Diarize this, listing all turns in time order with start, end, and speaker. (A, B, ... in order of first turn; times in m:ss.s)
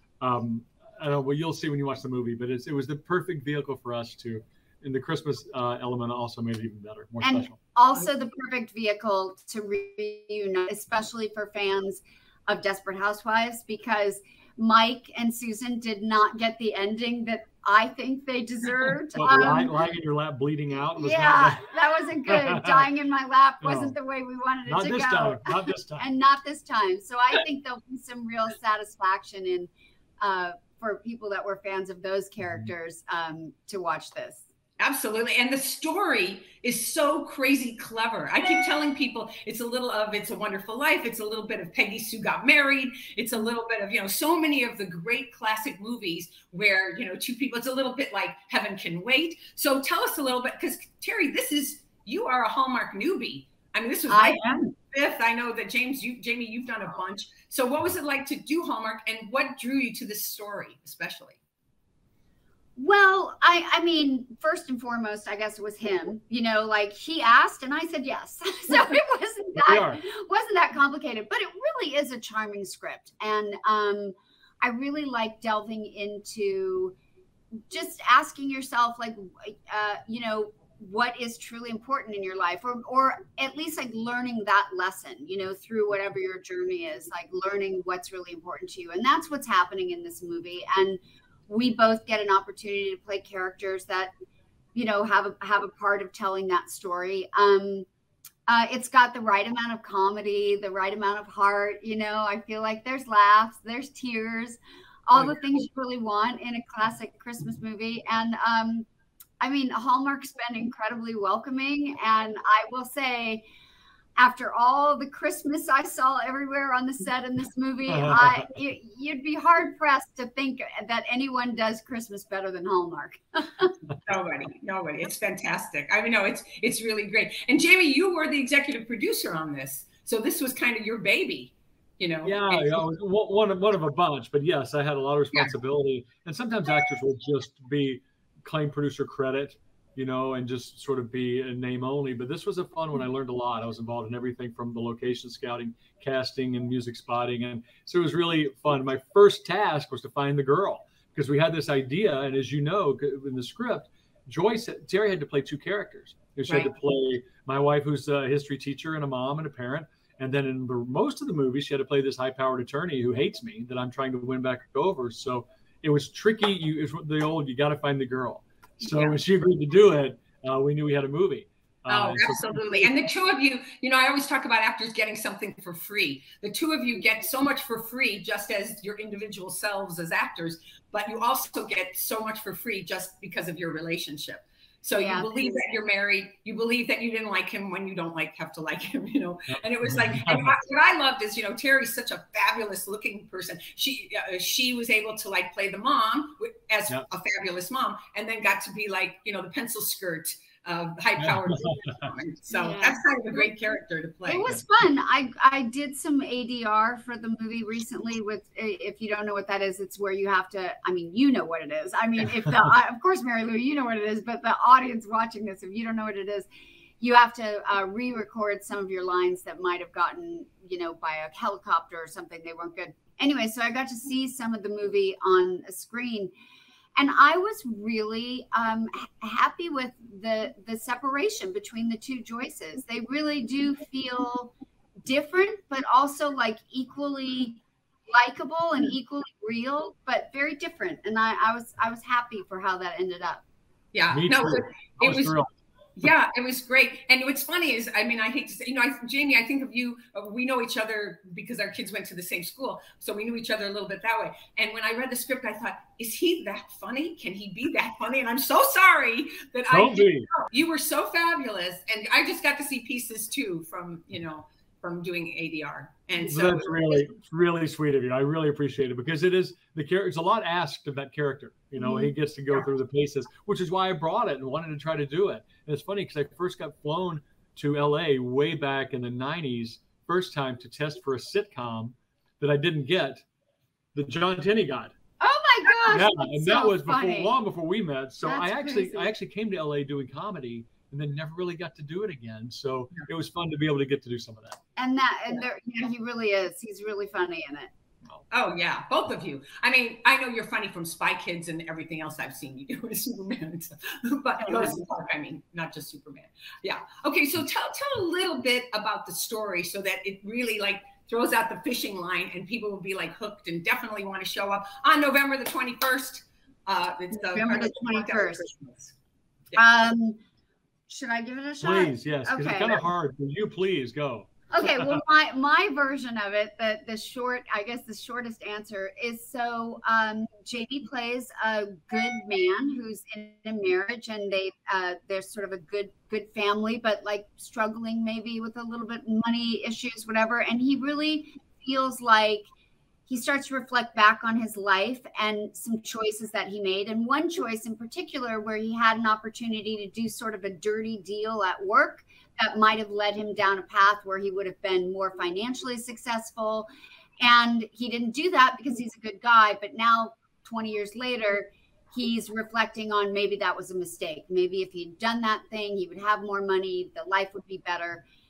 0:00.2-0:07.6 A
0:07.2-0:19.8 B
0:19.1-0:21.7 A
0:21.0-0:34.4 B
0:22.2-0:22.9 A
0:23.6-0:24.0 A
0:24.6-0:26.1 A
0:34.8-1:01.4 C
0:54.1-0:54.7 B
1:02.8-1:16.9 B
1:09.6-1:10.0 A
1:17.7-1:34.1 B
1:34.7-1:37.8 B
1:38.5-1:48.9 B
1:49.4-1:53.4 B
1:54.2-2:03.7 B
1:57.9-1:58.5 A
2:04.0-2:12.8 C
2:12.2-2:52.9 A
2:48.8-2:49.2 C
2:51.9-3:24.5 C
3:04.9-3:05.6 B
3:09.5-3:10.5 A
3:21.2-3:22.1 A
3:22.5-3:23.0 B
3:24.2-3:36.5 B
3:37.0-3:46.3 B
3:47.0-3:54.5 B
3:55.0-4:03.4 B
4:03.9-4:05.3 C
4:04.1-4:05.5 A
4:06.0-4:27.0 C
4:19.7-4:20.3 A
4:26.3-4:43.2 A
4:31.8-4:32.1 B
4:43.9-4:44.9 A
4:45.2-4:47.3 B
4:45.9-4:54.6 A
4:48.2-4:49.1 B
4:54.8-4:57.7 B
4:58.3-5:18.9 C
5:04.4-5:04.8 B
5:17.1-5:18.4 B
5:19.6-5:20.2 B
5:20.9-5:22.8 B
5:21.6-5:25.0 A
5:24.5-5:42.5 B
5:43.1-5:56.7 B
5:57.2-6:08.0 B